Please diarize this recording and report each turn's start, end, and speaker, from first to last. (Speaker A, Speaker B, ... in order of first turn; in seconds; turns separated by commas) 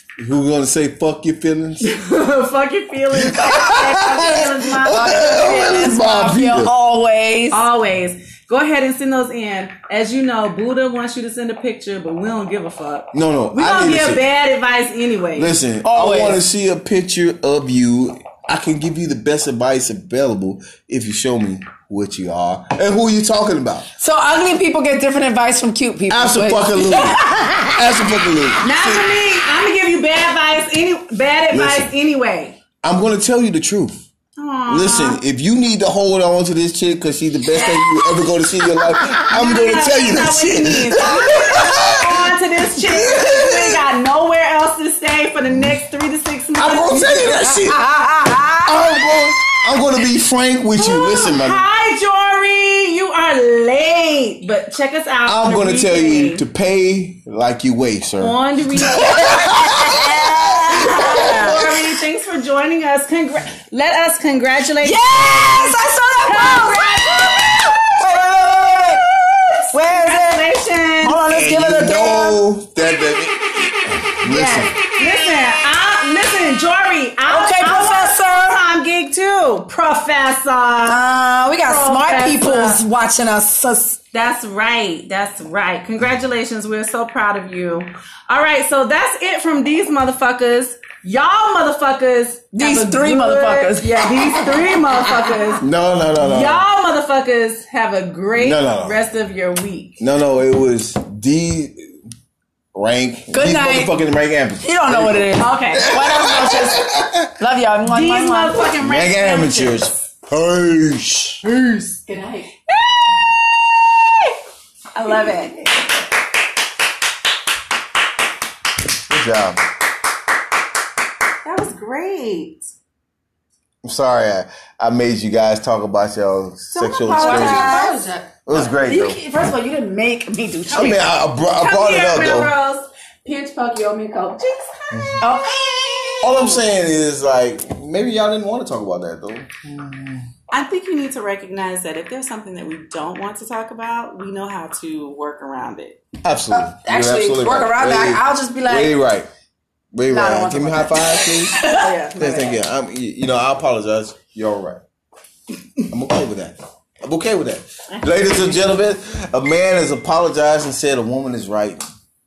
Speaker A: 0.2-1.9, Speaker B: 1.8-6.0, Speaker A: 3.1-6.7, Speaker C: 4.9-7.6, Speaker B: 7.5-15.6, Speaker A: 13.1-14.2, Speaker A: 15.3-23.9, Speaker C: 15.8-16.4, Speaker C: 24.0-27.8, Speaker A: 26.1-28.7, Speaker B: 28.6-32.6, Speaker A: 31.5-31.9, Speaker A: 32.8-34.0, Speaker B: 34.4-35.2, Speaker A: 34.7-43.8, Speaker B: 39.2-47.5, Speaker A: 46.6-51.6, Speaker C: 47.7-48.7, Speaker B: 50.8-56.4, Speaker A: 55.2-61.9, Speaker B: 58.2-71.2, Speaker C: 59.7-61.5, Speaker C: 64.8-69.0, Speaker C: 69.7-70.5, Speaker C: 71.0-72.4, Speaker A: 71.3-74.8, Speaker B: 74.2-81.0, Speaker C: 77.3-78.6, Speaker C: 80.8-84.0, Speaker B: 81.6-82.8, Speaker B: 84.1-95.7, Speaker C: 92.5-95.5, Speaker A: 95.6-96.6, Speaker B: 96.2-100.0, Speaker A: 98.4-99.0, Speaker A: 100.0-101.9, Speaker A: 102.7-107.2, Speaker C: 103.3-103.9, Speaker C: 104.6-108.6, Speaker B: 105.4-105.9, Speaker B: 107.8-109.9, Speaker A: 108.8-111.4, Speaker C: 111.5-112.5, Speaker B: 114.9-115.6, Speaker A: 119.1-119.6, Speaker B: 121.4-122.7, Speaker A: 123.8-127.9, Speaker B: 126.7-128.0, Speaker C: 127.1-131.1, Speaker A: 128.4-129.2, Speaker A: 130.7-132.5, Speaker B: 131.6-135.3, Speaker C: 135.2-136.6, Speaker A: 136.2-140.3, Speaker B: 140.5-146.0, Speaker A: 146.2-149.3, Speaker C: 146.5-149.0, Speaker A: 149.9-151.6, Speaker C: 150.1-152.3, Speaker B: 151.7-152.6, Speaker A: 152.2-154.8, Speaker A: 155.9-161.8, Speaker B: 157.9-158.4